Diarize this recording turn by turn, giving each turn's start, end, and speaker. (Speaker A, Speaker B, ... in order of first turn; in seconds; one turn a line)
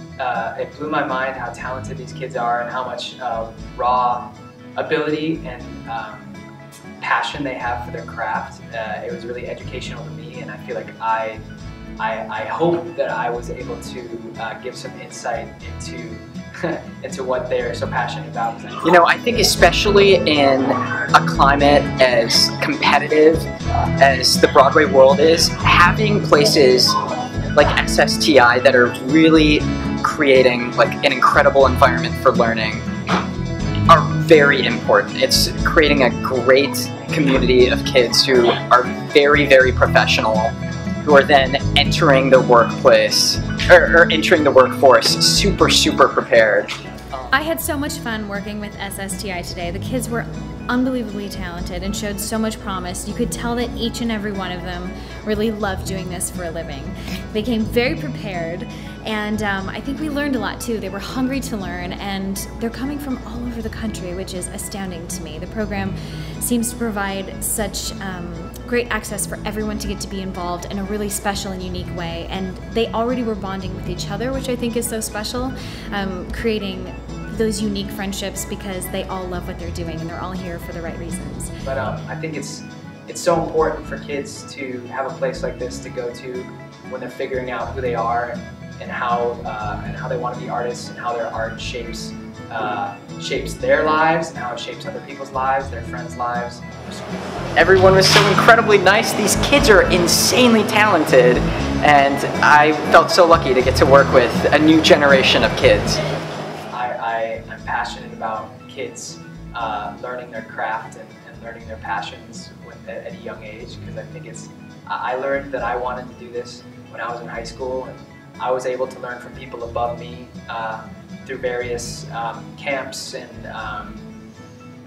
Speaker A: 0.2-6.4
Speaker A: 7.0-11.4
Speaker A: 12.0-19.0
Speaker B: 18.8-23.5
Speaker B: 24.0-26.9
Speaker B: 27.5-32.9
Speaker B: 33.9-47.2
Speaker C: 47.3-81.5
Speaker A: 81.6-97.3
Speaker B: 97.5-106.0
Speaker A: 106.7-124.0